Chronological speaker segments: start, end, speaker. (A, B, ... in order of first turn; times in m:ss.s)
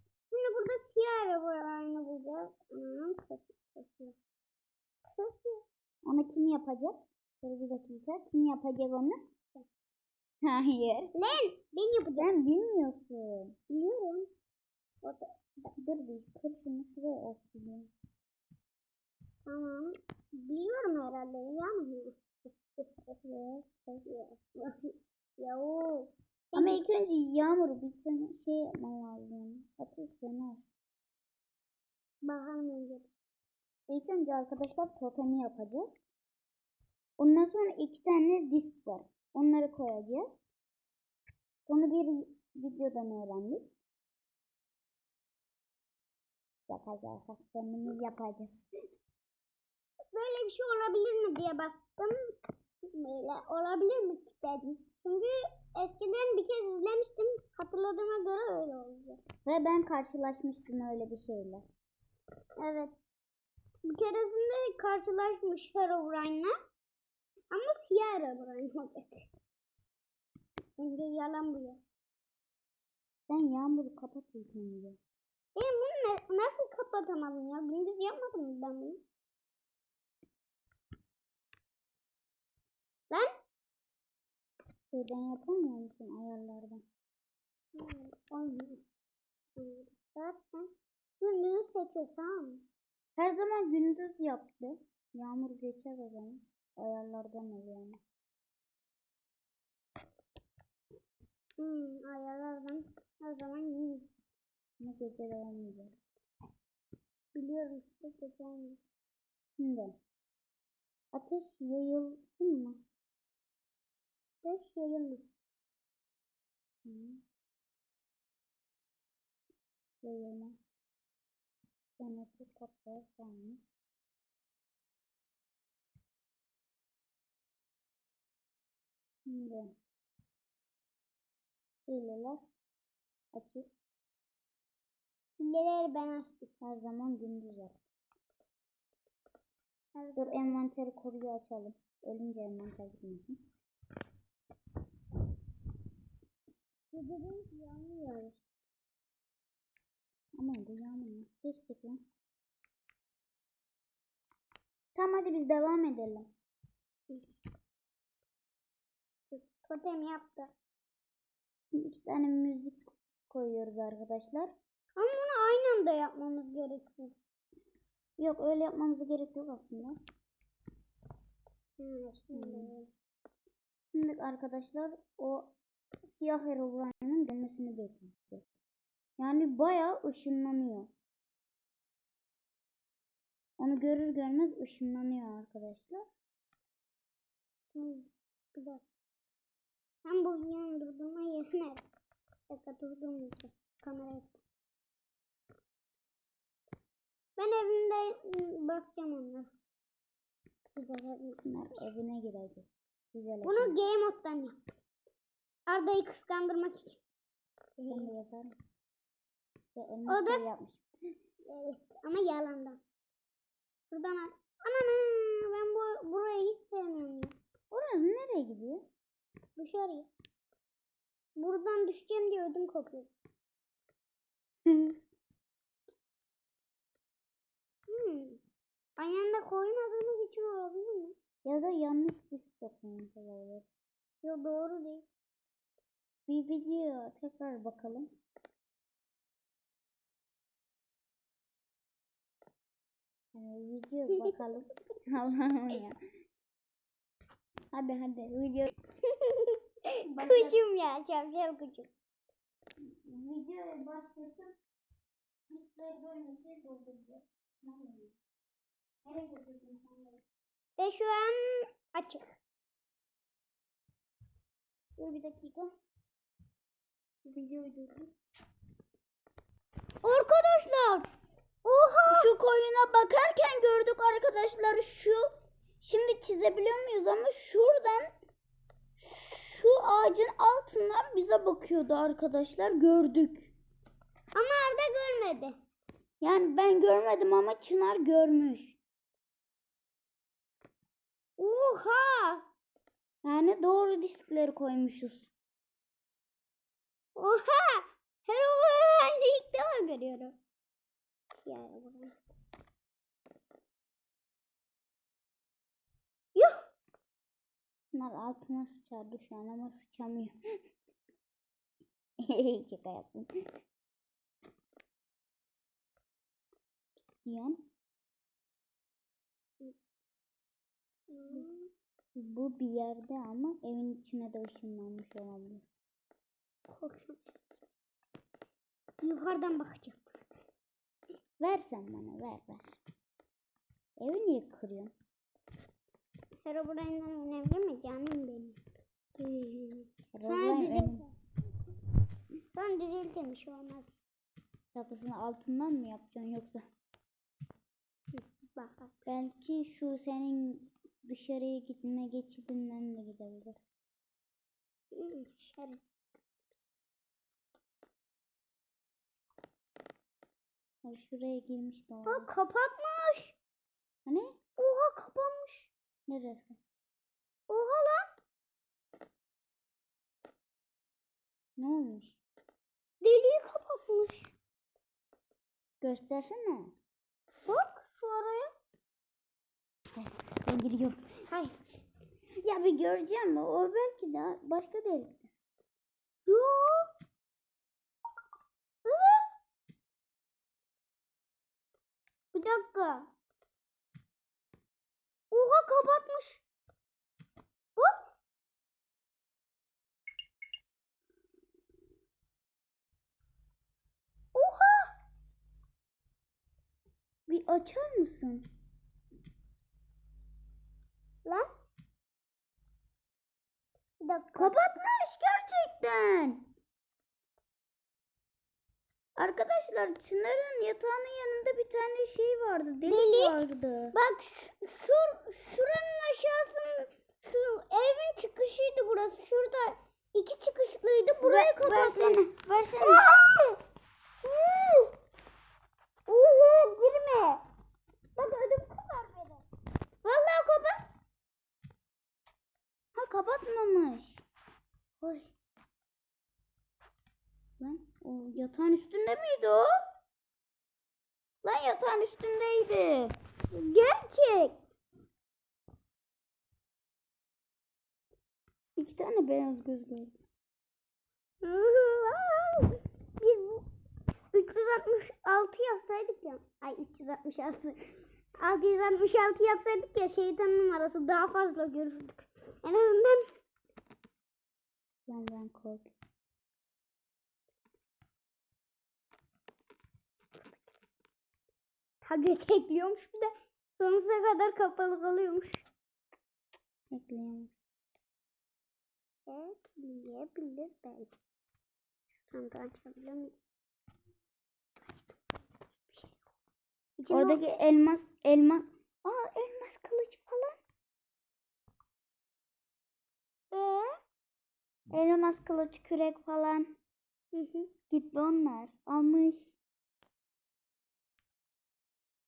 0:00.3-0:04.1 A
0:05.1-0:05.6 A
0:06.0-0:09.2 B
0:10.4-0:11.1 B
0:11.1-0:12.3 A
0:12.2-0:13.6 B
0:13.7-0:14.3 A
0:15.0-0:15.7 A
0:15.8-0:17.9 B
0:19.5-0:23.1 A
0:23.2-0:23.9 B
0:24.0-0:26.8 A
0:26.6-0:30.6 B
0:32.2-0:33.1 A
0:33.9-0:36.0 B
0:37.2-0:40.3 B
0:41.7-0:43.7 B
0:46.7-0:48.7 B
0:50.1-0:52.2 A
0:52.8-0:59.2 A
0:59.4-1:01.6 B
1:02.6-1:02.9 A
1:03.9-1:06.5 A
1:07.5-1:09.3 A
1:10.8-1:11.8 A
1:13.3-1:15.0 B
1:15.6-1:19.0 A
1:24.9-1:26.8 B
1:27.8-1:28.8 A
1:29.6-1:30.7 A
1:31.2-1:32.6 A
1:33.2-1:38.0 B
1:41.6-1:44.0 A
1:44.8-1:45.9 B
1:47.3-1:48.8 A
1:49.6-1:49.9 B
1:51.1-1:52.8 B
1:54.4-1:55.2 A
1:56.8-1:57.2 B
2:00.0-2:00.6 B
2:02.0-2:03.6 B
2:09.3-2:09.7 B
2:11.9-2:12.4 B
2:13.3-2:13.7 B
2:15.4-2:16.5 A
2:16.6-2:17.8 B
2:20.0-2:20.6 A
2:20.2-2:23.4 B
2:26.9-2:28.4 A
2:30.4-2:32.0 B
2:34.9-2:36.3 B
2:39.3-2:40.5 A
2:41.7-2:44.5 B
2:45.0-2:47.1 A
2:48.2-2:50.0 B
2:51.8-2:52.9 A
2:52.3-2:52.7 B
2:53.9-2:55.5 B
2:56.0-2:58.6 B
2:59.2-3:00.9 B
3:03.6-3:06.0 B
3:07.7-3:08.8 A
3:10.0-3:11.8 A
3:12.5-3:14.4 A
3:17.4-3:19.5 A
3:20.7-3:21.4 A
3:21.4-3:23.7 B
3:23.4-3:24.6 A
3:25.7-3:27.0 A
3:27.8-3:28.1 A
3:27.9-3:28.5 B
3:29.8-3:30.8 B
3:30.1-3:30.4 A
3:31.5-3:32.8 A
3:33.9-3:37.3 A
3:37.7-3:38.8 B
3:39.6-3:40.1 A
3:41.4-3:43.1 A
3:44.6-3:45.0 B
3:47.9-3:48.4 A
3:49.0-3:51.1 A
3:51.4-3:53.6 B
3:54.2-3:55.0 A
3:56.3-3:58.1 B
4:03.3-4:06.0 B
4:07.7-4:08.7 B
4:09.1-4:11.9 A
4:10.1-4:10.6 B
4:12.8-4:14.5 B
4:15.5-4:18.1 B
4:19.0-4:20.2 B
4:20.8-4:22.2 A
4:25.0-4:25.7 B
4:27.3-4:28.1 B
4:30.0-4:31.1 A
4:31.6-4:32.3 A
4:32.1-4:35.2 B
4:35.8-4:38.1 B
4:39.0-4:43.5 B
4:44.3-4:45.5 A
4:46.2-4:48.8 B
4:51.4-4:52.4 A
4:53.2-4:55.3 B
4:57.2-5:00.3 A
5:01.4-5:02.1 A
5:07.9-5:10.4 B
5:12.2-5:13.3 B
5:17.1-5:17.6 B
5:21.1-5:21.7 A
5:22.1-5:25.6 B
5:26.7-5:27.3 A
5:29.0-5:30.2 A
5:31.4-5:32.8 B
5:34.0-5:34.9 B
5:36.4-5:38.6 A
5:39.2-5:41.1 A
5:40.1-5:41.0 B
5:42.5-5:43.9 A
5:44.7-5:46.6 B
5:48.1-5:48.9 A
5:49.0-5:53.6 B
5:54.9-5:55.9 A
6:00.8-6:02.3 B
6:02.1-6:03.3 A
6:04.0-6:04.4 B
6:04.6-6:05.7 A
6:06.1-6:06.6 B
6:07.5-6:08.0 A
6:11.6-6:12.2 B
6:13.0-6:14.3 A
6:15.8-6:16.7 B
6:17.4-6:18.5 A
6:19.9-6:21.0 B
6:22.4-6:25.3 B
6:26.3-6:26.9 A
6:28.8-6:29.3 A
6:32.3-6:33.1 A
6:35.3-6:36.4 A
6:44.3-6:44.9 A
6:47.3-6:48.4 B
6:54.0-6:54.6 A
6:54.4-6:56.4 B
6:59.2-7:03.9 B
7:02.8-7:03.4 A
7:03.9-7:12.2 A
7:11.2-7:13.2 B
7:12.8-7:13.6 A
7:14.2-7:14.9 A
7:16.1-7:17.4 A
7:18.2-7:19.4 A
7:20.0-7:20.8 A
7:22.9-7:24.2 B
7:25.0-7:25.3 A
7:27.6-7:29.7 B
7:31.4-7:33.1 B
7:33.5-7:34.5 A
7:38.8-7:40.1 B
7:41.4-7:43.6 A
7:44.3-7:53.2 A
7:55.1-7:55.9 B
8:02.0-8:05.6 A
8:06.9-8:07.5 B
8:09.3-8:11.1 A
8:12.3-8:13.4 A
8:15.8-8:16.2 A
8:17.0-8:17.4 A
8:17.1-8:20.6 B
8:23.5-8:23.9 A
8:24.9-8:26.7 B
8:27.3-8:27.7 A
8:27.9-8:29.5 B